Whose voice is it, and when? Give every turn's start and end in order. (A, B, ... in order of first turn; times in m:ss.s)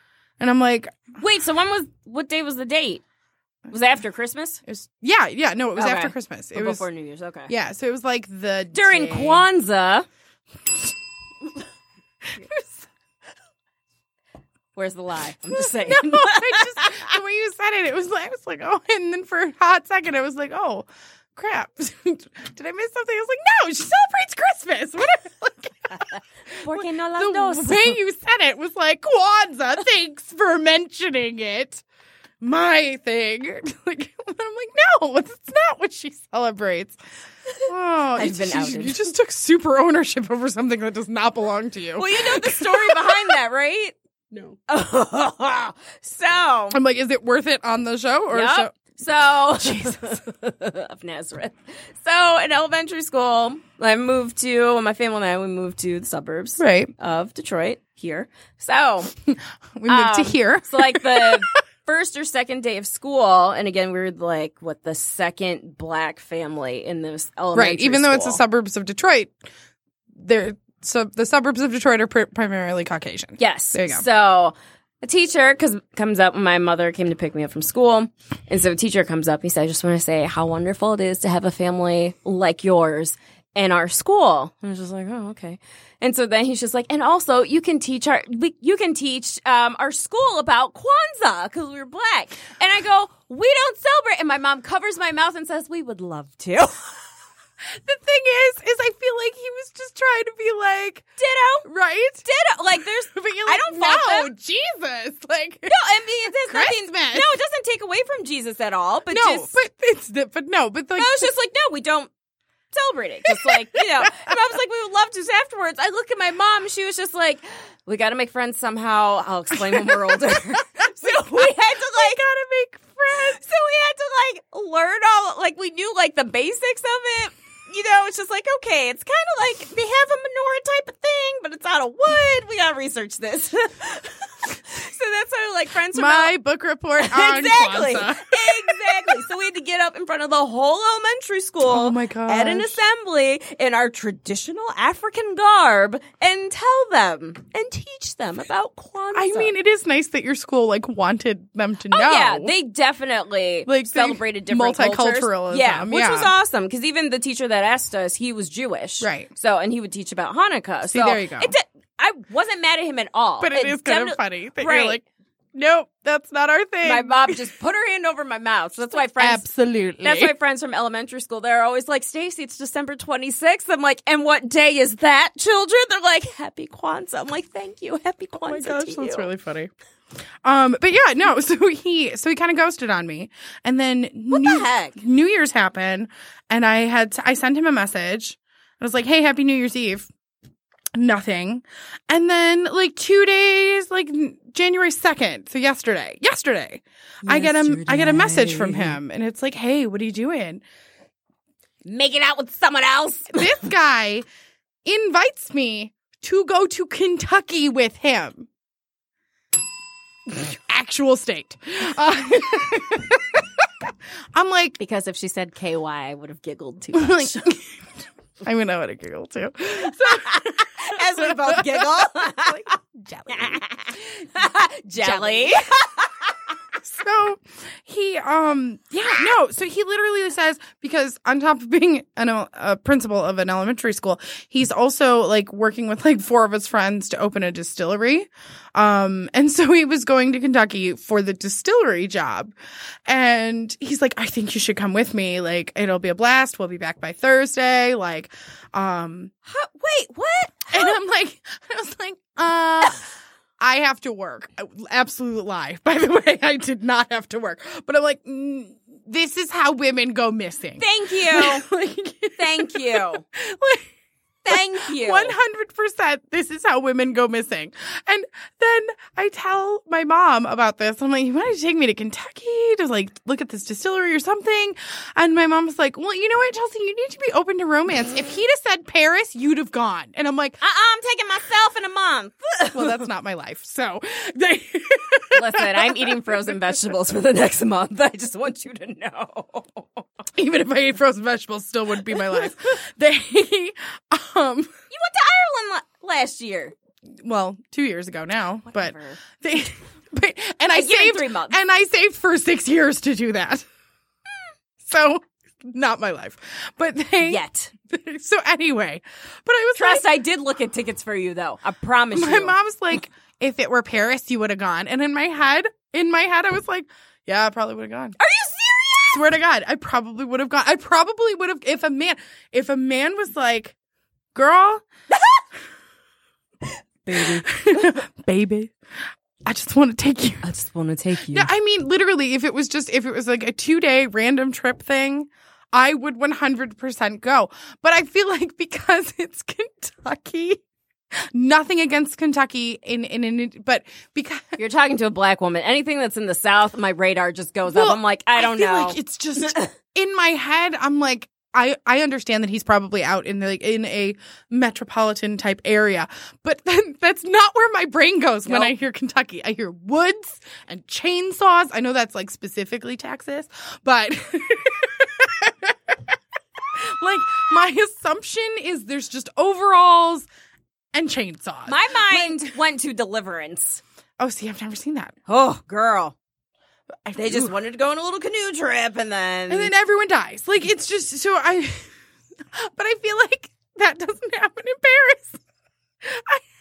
0:00.4-0:01.0 A
0:01.2-0:03.0 B
0:03.7-0:04.6 B
0:04.6-0:06.8 A
0:05.8-0:07.5 B
0:07.5-0:09.4 A
0:08.7-0:10.0 B
0:12.4-0:12.8 A
0:14.7-0:17.1 B
0:15.5-0:31.8 A
0:26.6-0:28.0 B
0:32.4-0:37.0 A
0:37.6-0:43.4 A
0:38.2-0:39.1 B
0:42.0-0:43.9 B
0:44.7-0:46.8 B
0:46.7-0:48.8 A
0:48.3-0:59.1 B
0:49.6-0:50.2 A
0:56.6-0:56.9 A
0:59.3-1:01.4 A
0:59.9-1:08.4 B
1:07.5-1:09.3 A
1:10.2-1:14.0 A
1:13.4-1:36.8 B
1:37.7-1:41.0 A
1:41.2-1:41.7 B
1:41.6-1:42.2 A
1:42.2-1:44.3 B
1:43.1-1:45.8 A
1:45.7-1:49.6 B
1:46.4-1:47.3 A
1:49.1-1:51.3 A
1:51.0-1:52.1 B
1:52.7-2:02.2 B
1:53.3-1:54.1 A
1:59.6-2:03.3 A
2:03.0-2:16.3 B
2:15.9-2:19.2 A
2:17.0-2:29.5 B
2:21.6-2:22.8 A
2:29.1-2:32.5 A
2:31.9-2:45.0 B
2:33.6-2:36.3 A
2:39.0-2:39.3 A
2:40.9-2:41.5 A
2:43.4-2:47.4 A
2:46.8-2:49.5 B
2:49.2-2:50.3 A
2:50.0-2:59.3 B
2:58.4-2:59.7 A
3:00.4-3:10.1 A
3:04.3-3:05.0 B
3:10.9-3:20.6 A
3:17.2-3:19.0 B
3:21.8-3:23.7 B
3:23.3-3:24.2 A
3:24.8-3:28.5 A
3:30.3-3:34.8 A
3:34.8-3:37.6 B
3:36.9-3:37.6 A
3:38.4-3:43.6 A
3:39.9-3:42.7 B
3:43.3-3:46.3 B
3:45.0-3:45.6 A
3:46.8-4:02.5 A
4:03.1-4:09.3 A
4:09.4-4:11.0 B
4:10.7-4:13.0 A
4:13.6-4:23.9 A
4:20.8-4:21.6 B
4:22.4-4:23.2 B
4:24.4-4:25.4 B
4:24.5-4:40.6 A
4:40.6-4:43.0 B
4:42.7-4:46.8 A
4:45.3-4:50.0 B
4:50.4-4:54.7 A
4:54.9-4:56.7 B
4:57.2-5:03.6 A
4:58.6-4:59.2 B
5:00.7-5:01.6 B
5:04.8-5:10.1 A
5:07.2-5:07.7 B
5:09.7-5:12.6 B
5:12.1-5:18.2 A
5:18.2-5:19.2 B
5:19.0-5:23.7 A
5:24.3-5:24.8 A
5:25.1-5:25.4 B
5:27.0-5:27.9 B
5:27.1-5:28.7 A
5:29.4-5:30.4 A
5:30.4-5:31.5 B
5:31.3-5:40.6 A
5:41.3-5:44.6 A
5:44.6-5:49.7 B
5:47.7-6:06.1 A
5:58.4-5:58.7 B
6:06.7-6:10.3 A
6:10.9-6:12.5 A
6:11.7-6:13.8 B
6:14.2-6:15.1 A
6:15.3-6:16.1 B
6:17.0-6:17.5 A
6:17.1-6:19.7 B
6:19.5-6:21.9 A
6:22.5-6:25.4 A
6:26.0-6:26.4 A